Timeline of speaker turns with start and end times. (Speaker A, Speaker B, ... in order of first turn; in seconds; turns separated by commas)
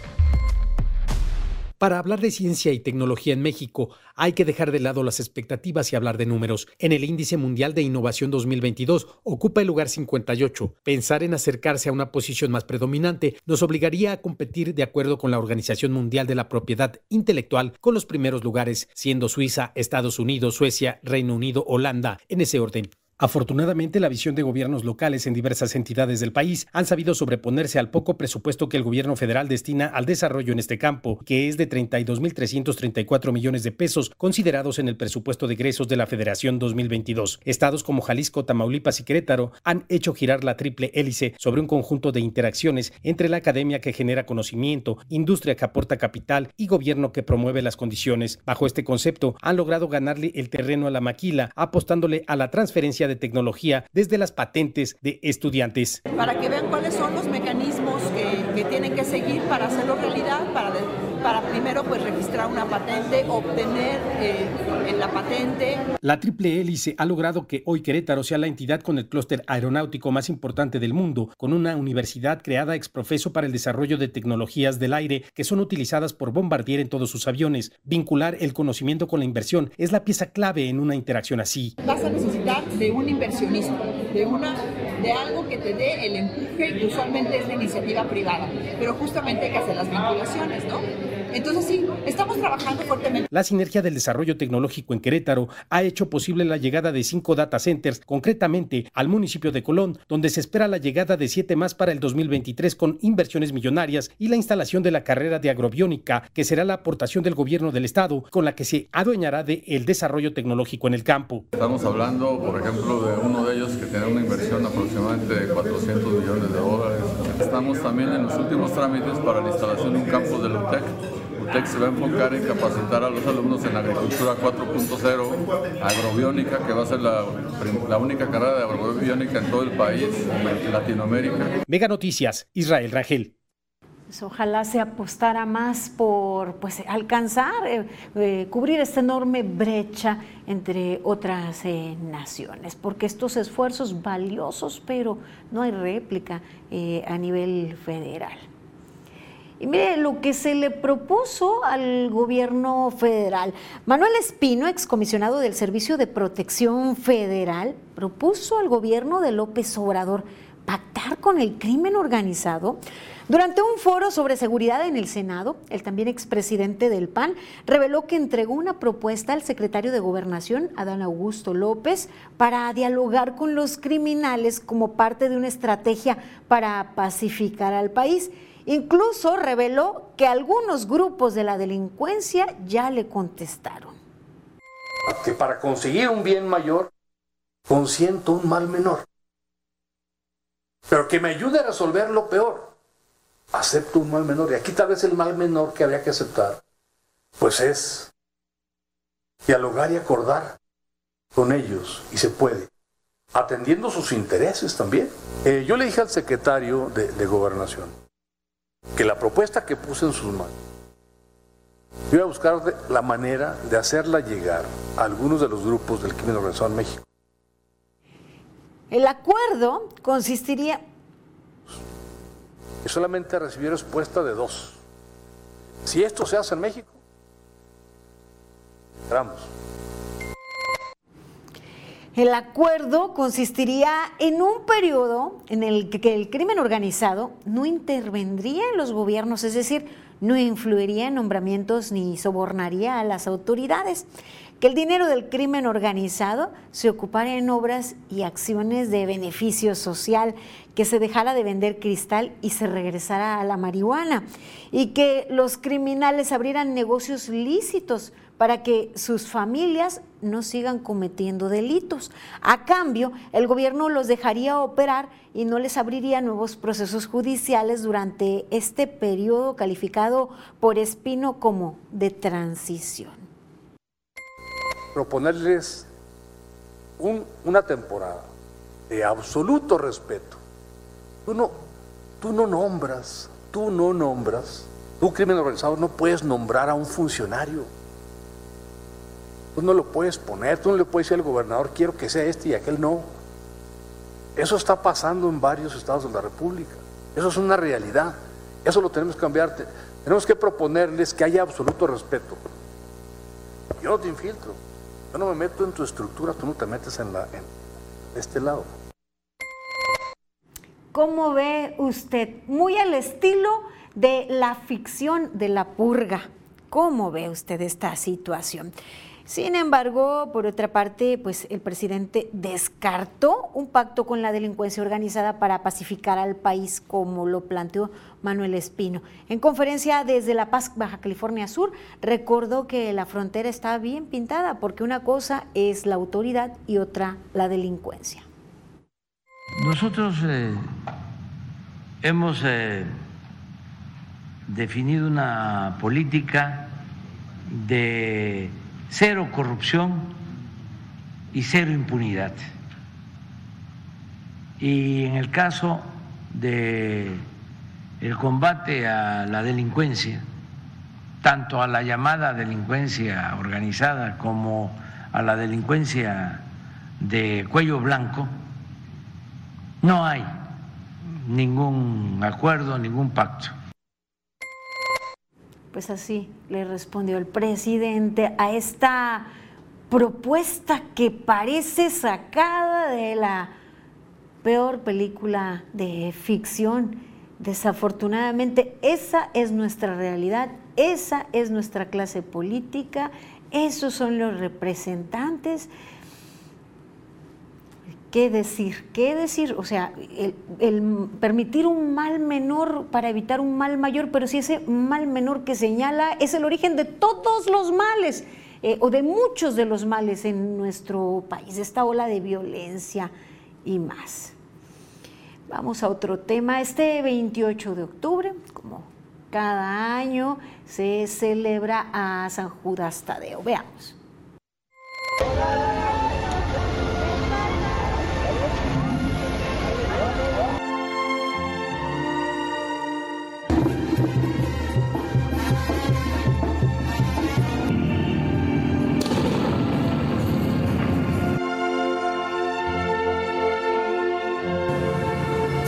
Speaker A: 1.8-56.0, Speaker B: 56.1-65.9, Speaker A: 66.0-81.7, Speaker B: 81.8-93.2, Speaker A: 93.3-111.5, Speaker C: 111.5-131.6, Speaker A: 131.7-133.3, Speaker D: 134.1-148.4, Speaker D: 149.6-184.0, Speaker E: 185.1-186.9, Speaker E: 187.7-189.1, Speaker E: 190.9-192.7, Speaker E: 193.5-196.6, Speaker E: 197.4-198.1, Speaker E: 199.5-200.5, Speaker E: 201.3-202.7, Speaker E: 203.3-207.9, Speaker E: 208.9-210.6, Speaker E: 212.1-217.0, Speaker D: 218.9-220.8, Speaker E: 222.8-224.8, Speaker E: 225.8-227.0, Speaker E: 229.1-229.5, Speaker D: 232.2-244.1, Speaker D: 244.6-273.3, Speaker E: 274.9-275.9, Speaker E: 277.0-278.3, Speaker E: 278.9-280.4, Speaker E: 281.3-281.7, Speaker E: 282.2-287.7, Speaker E: 289.6-293.1, Speaker E: 294.4-302.4, Speaker E: 303.8-304.6, Speaker E: 305.1-307.5, Speaker E: 308.1-308.7, Speaker D: 310.9-318.7, Speaker D: 319.3-338.2, Speaker F: 339.6-340.7, Speaker F: 342.0-342.9, Speaker F: 344.5-346.7, Speaker F: 347.5-350.1, Speaker F: 351.3-352.4, Speaker F: 354.6-357.3, Speaker F: 358.0-360.2, Speaker F: 361.2-366.5, Speaker F: 367.0-368.3, Speaker F: 369.8-370.3, Speaker F: 371.2-373.5, Speaker D: 375.7-379.3, Speaker D: 379.9-383.5, Speaker D: 384.4-395.7, Speaker D: 398.1-413.1, Speaker D: 413.6-414.3, Speaker D: 415.5-424.0